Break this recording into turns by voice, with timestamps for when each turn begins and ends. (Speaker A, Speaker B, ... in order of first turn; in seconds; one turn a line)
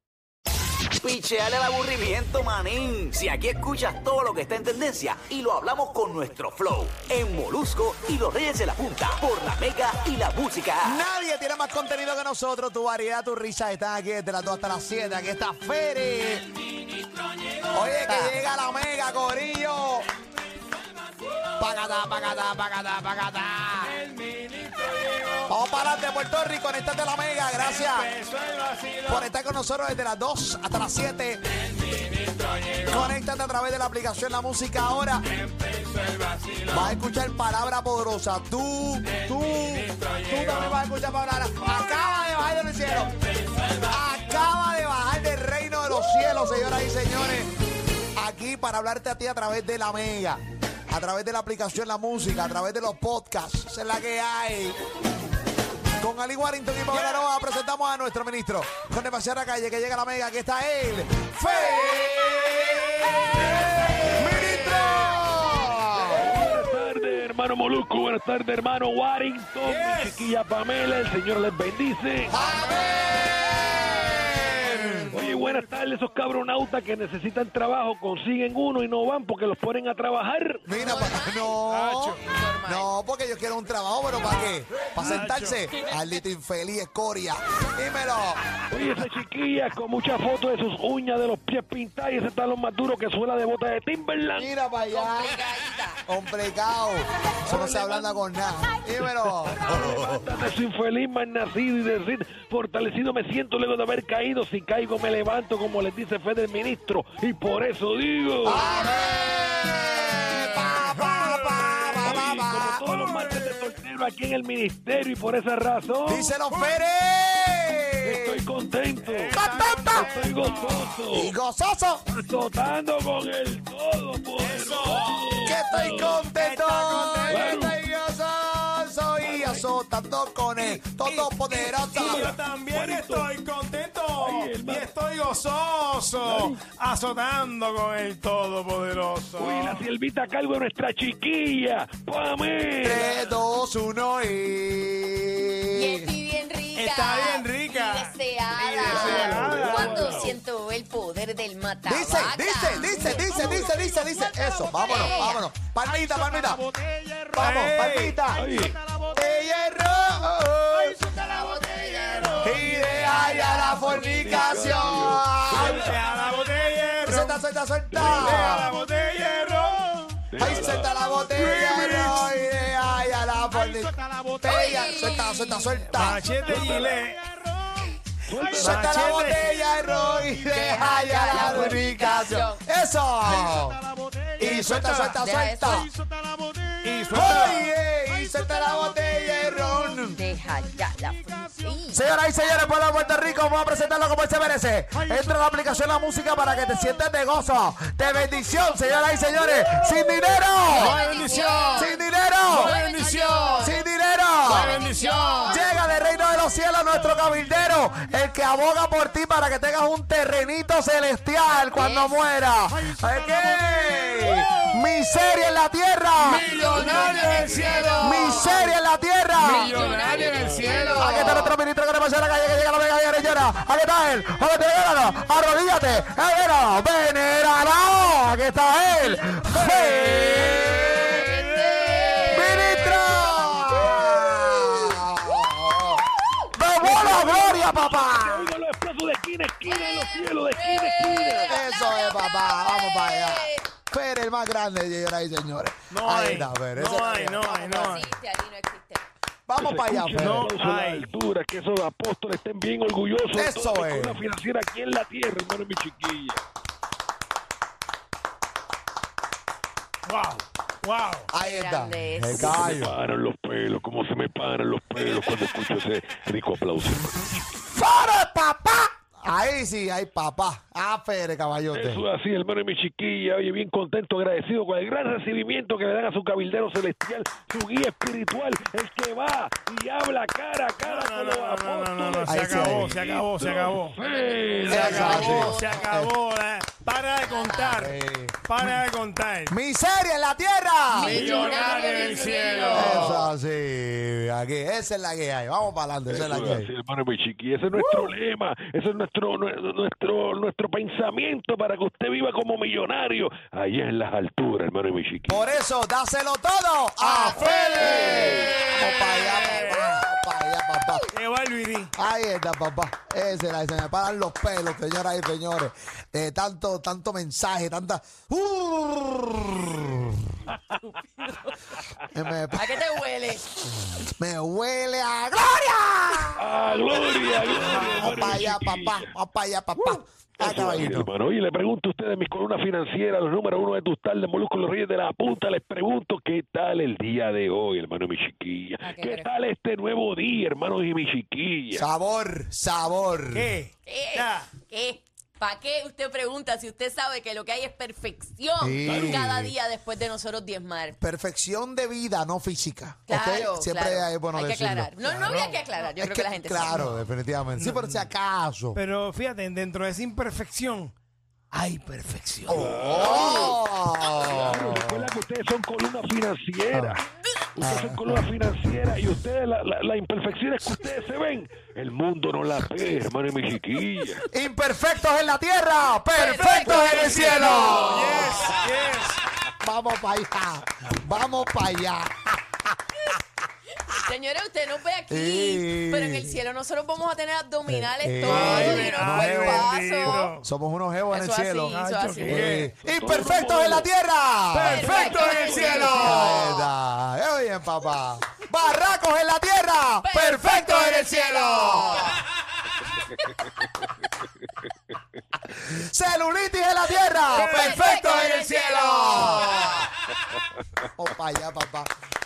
Speaker A: 1.0-11.0
Speaker B: 10.8-16.5
Speaker B: 17.7-20.1
Speaker C: 18.1-18.4
Speaker B: 21.6-24.0
Speaker D: 23.9-25.5
Speaker B: 25.5-28.1
Speaker D: 27.5-29.3
Speaker B: 29.1-31.4
Speaker D: 31.9-33.1
Speaker B: 32.9-35.3
Speaker D: 35.3-36.9
Speaker B: 36.7-43.1
Speaker D: 39.1-40.7
Speaker B: 43.8-47.5
Speaker B: 48.1-54.8
Speaker B: 56.0-66.4
Speaker D: 61.6-62.0
Speaker D: 62.5-65.0
Speaker E: 66.1-72.4
Speaker D: 69.6-70.2
Speaker B: 72.3-75.1
Speaker C: 72.4-72.8
Speaker D: 74.3-75.6
Speaker E: 75.1-80.7
Speaker B: 80.7-88.4
Speaker C: 80.7-81.6
Speaker D: 81.6-82.2
Speaker C: 82.2-82.9
Speaker D: 84.8-85.7
Speaker E: 88.7-94.5
Speaker B: 94.3-95.4
Speaker C: 94.9-96.0
Speaker B: 96.1-100.2
Speaker E: 97.4-98.2
Speaker E: 99.5-108.8
Speaker B: 108.4-112.9
Speaker D: 110.1-113.7
Speaker E: 112.0-116.3
Speaker B: 116.0-118.4
Speaker D: 116.5-116.8
Speaker E: 118.0-121.3
Speaker D: 119.0-121.0
Speaker B: 119.3-120.1
Speaker B: 121.1-122.0
Speaker E: 122.1-126.2
Speaker D: 124.4-127.5
Speaker B: 125.4-132.4
Speaker E: 127.3-127.8
Speaker E: 129.2-129.7
Speaker D: 130.6-139.8
Speaker E: 131.9-133.3
Speaker E: 134.2-134.9
Speaker E: 136.2-136.6
Speaker E: 139.4-143.2
Speaker B: 142.8-146.1
Speaker C: 145.7-153.2
Speaker D: 146.7-150.3
Speaker E: 148.7-150.4
Speaker B: 151.8-156.6
Speaker D: 152.9-154.5
Speaker C: 154.8-155.4
Speaker D: 156.1-159.0
Speaker B: 157.3-158.5
Speaker E: 158.3-158.8
Speaker B: 159.1-161.1
Speaker D: 160.9-163.7
Speaker C: 161.3-165.0
Speaker B: 162.4-166.0
Speaker E: 163.8-165.9
Speaker D: 165.5-167.4
Speaker B: 167.1-168.7
Speaker E: 167.9-168.5
Speaker D: 168.0-170.3
Speaker E: 170.3-170.9
Speaker B: 170.4-176.2
Speaker D: 171.2-172.3
Speaker D: 173.9-174.6
Speaker C: 174.4-176.0
Speaker D: 175.9-180.3
Speaker E: 176.4-177.0
Speaker E: 178.3-179.1
Speaker B: 178.6-183.8
Speaker C: 180.5-182.6
Speaker D: 181.3-181.8
Speaker D: 183.2-185.2
Speaker B: 184.4-185.9
Speaker C: 185.2-185.9
Speaker D: 186.1-187.8
Speaker B: 187.1-190.2
Speaker D: 189.3-189.9
Speaker C: 190.1-192.0
Speaker B: 191.9-201.0
Speaker D: 199.6-199.9
Speaker C: 200.7-203.8
Speaker D: 200.7-201.9
Speaker B: 201.7-202.8
Speaker D: 202.4-203.7
Speaker B: 203.6-204.8
Speaker D: 204.4-205.6
Speaker C: 204.7-205.8
Speaker B: 205.4-216.9
Speaker C: 211.6-212.2
Speaker D: 212.9-214.8
Speaker D: 216.2-218.6
Speaker C: 216.4-218.8
Speaker B: 218.0-220.1
Speaker C: 219.3-221.6
Speaker D: 219.4-221.5
Speaker E: 220.2-221.0
Speaker B: 220.9-231.3
Speaker D: 229.3-231.0
Speaker C: 229.5-234.7
Speaker B: 232.3-238.5
Speaker C: 236.2-237.5
Speaker E: 236.8-241.6
Speaker C: 239.6-243.7
Speaker B: 241.5-247.4
Speaker D: 245.9-248.1
Speaker C: 247.0-249.0
Speaker B: 249.5-250.5
Speaker E: 249.6-256.4
Speaker D: 250.1-251.1
Speaker B: 253.3-254.2
Speaker D: 260.1-261.3
Speaker B: 261.3-263.0
Speaker C: 261.4-262.5
Speaker E: 262.3-267.4
Speaker B: 267.5-272.0
Speaker E: 271.7-285.4
Speaker D: 280.8-284.0
Speaker B: 282.2-282.9
Speaker C: 284.0-285.9
Speaker B: 284.7-286.1
Speaker D: 284.7-289.6
Speaker C: 287.2-287.8
Speaker B: 287.8-288.4
Speaker B: 289.5-291.4
Speaker D: 290.9-293.3
Speaker C: 290.9-293.3
Speaker E: 291.4-292.9
Speaker B: 292.7-296.7
Speaker E: 296.1-305.5
Speaker B: 305.3-311.1
Speaker C: 307.1-310.1
Speaker E: 307.4-308.5
Speaker D: 309.1-310.0
Speaker D: 311.1-311.9
Speaker B: 311.9-320.3
Speaker C: 320.8-321.6
Speaker B: 322.1-322.7
Speaker C: 322.5-323.4
Speaker B: 323.6-326.5
Speaker E: 326.4-329.1
Speaker D: 327.6-328.2
Speaker B: 327.7-331.1
Speaker E: 330.4-341.9
Speaker C: 338.8-339.3
Speaker B: 341.7-343.5
Speaker D: 343.3-344.5
Speaker C: 343.9-351.0
Speaker B: 348.6-349.5
Speaker E: 348.8-349.2
Speaker B: 351.0-354.9
Speaker C: 353.1-356.8
Speaker D: 355.0-355.6
Speaker B: 355.9-358.8
Speaker D: 356.7-358.1
Speaker D: 358.7-360.9
Speaker D: 361.5-362.7
Speaker B: 362.5-365.1
Speaker E: 362.5-363.6
Speaker C: 363.0-363.5
Speaker E: 364.1-367.0
Speaker B: 366.7-367.0
Speaker E: 367.5-374.2
Speaker B: 367.6-368.2
Speaker B: 374.3-378.5
Speaker C: 376.1-378.6
Speaker D: 376.7-379.2
Speaker B: 379.6-382.6
Speaker C: 383.8-390.3
Speaker B: 385.1-386.3
Speaker B: 387.6-402.2
Speaker D: 388.2-390.5
Speaker C: 391.1-392.6
Speaker D: 391.7-392.7
Speaker E: 392.2-393.9
Speaker D: 394.5-396.4
Speaker C: 394.6-396.7
Speaker C: 400.0-402.2
Speaker B: 405.5-409.7
Speaker C: 407.3-409.9
Speaker D: 407.3-407.9
Speaker B: 410.9-411.9